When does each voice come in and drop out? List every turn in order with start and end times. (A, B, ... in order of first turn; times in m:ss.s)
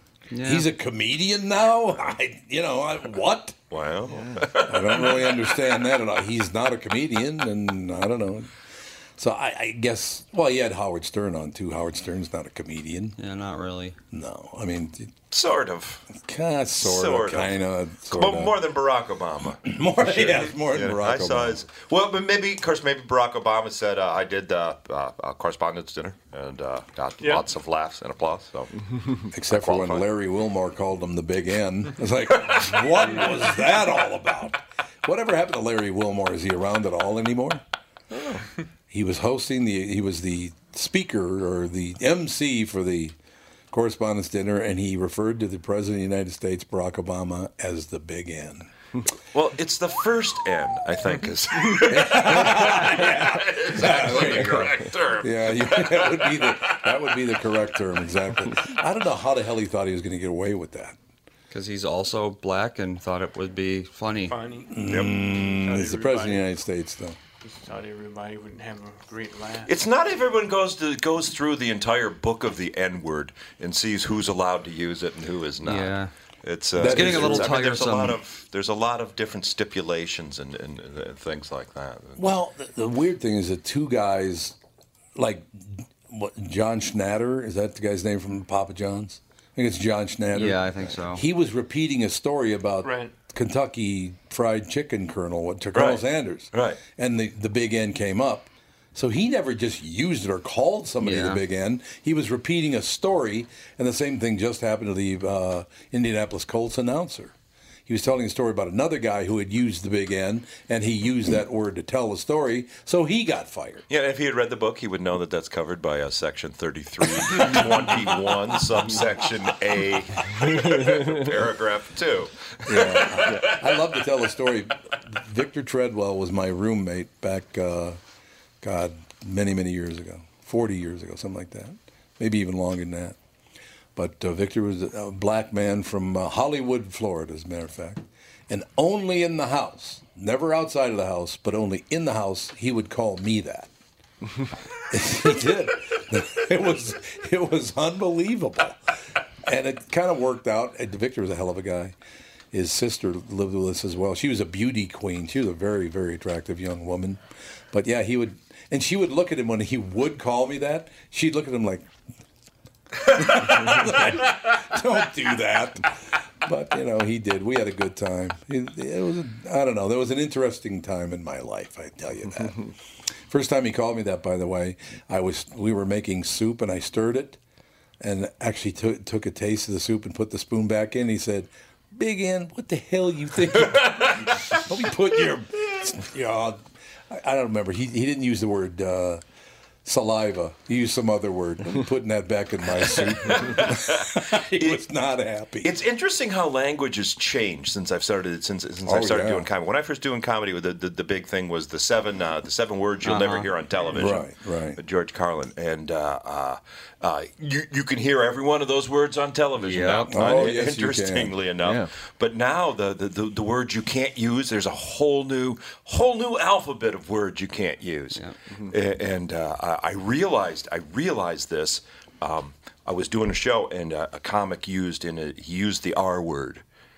0:00.3-0:00.7 A
0:00.4-0:03.6 B
0:03.7-0:05.2 C
0:04.6-0:08.5 B
0:09.2-0:13.2 B
0:13.2-0:14.0 A
0:14.1-0:15.1 B
0:15.3-0:16.1 C
0:16.1-0:18.6 B
0:16.8-0:28.9 C
0:19.6-0:21.6 B
0:27.2-0:27.5 D
0:29.3-0:37.6 B
0:29.5-0:30.1 C
0:32.4-0:33.2 C
0:38.1-0:38.4 C
0:38.9-0:43.2 B
0:43.7-0:48.7 B
0:49.3-0:56.6 C
0:51.9-1:01.0 B
1:01.5-1:04.4 A
1:04.3-1:06.5 D
1:04.7-1:07.2 B
1:04.9-1:05.2 C
1:07.4-1:09.7 D
1:09.7-1:22.2 C
1:15.6-1:16.1 A
1:16.8-1:17.6 B
1:16.8-1:18.2 A
1:22.2-1:24.6 B
1:25.2-1:47.3 B
1:30.3-1:31.2 A
1:32.8-1:33.1 D
1:35.7-1:36.8 C
1:41.0-1:41.4 A
1:47.9-1:53.8 B
1:53.9-2:03.6 C
2:02.7-2:08.0 B
2:08.6-2:13.2 B
2:14.0-2:23.7 B
2:24.9-2:28.8 B
2:29.4-2:32.0 B
2:32.5-2:37.2 B
2:37.7-2:41.9 B
2:43.0-2:52.6 B
2:53.3-2:57.4 B
2:58.0-3:06.6 B
3:03.7-3:04.4 C
3:07.1-3:09.2 B
3:09.8-3:15.7 B
3:13.0-3:14.8 C
3:15.6-3:46.6 C
3:18.9-3:19.5 B
3:23.0-3:23.5 A
3:23.9-3:24.8 B
3:29.6-3:30.5 A
3:30.1-3:31.4 B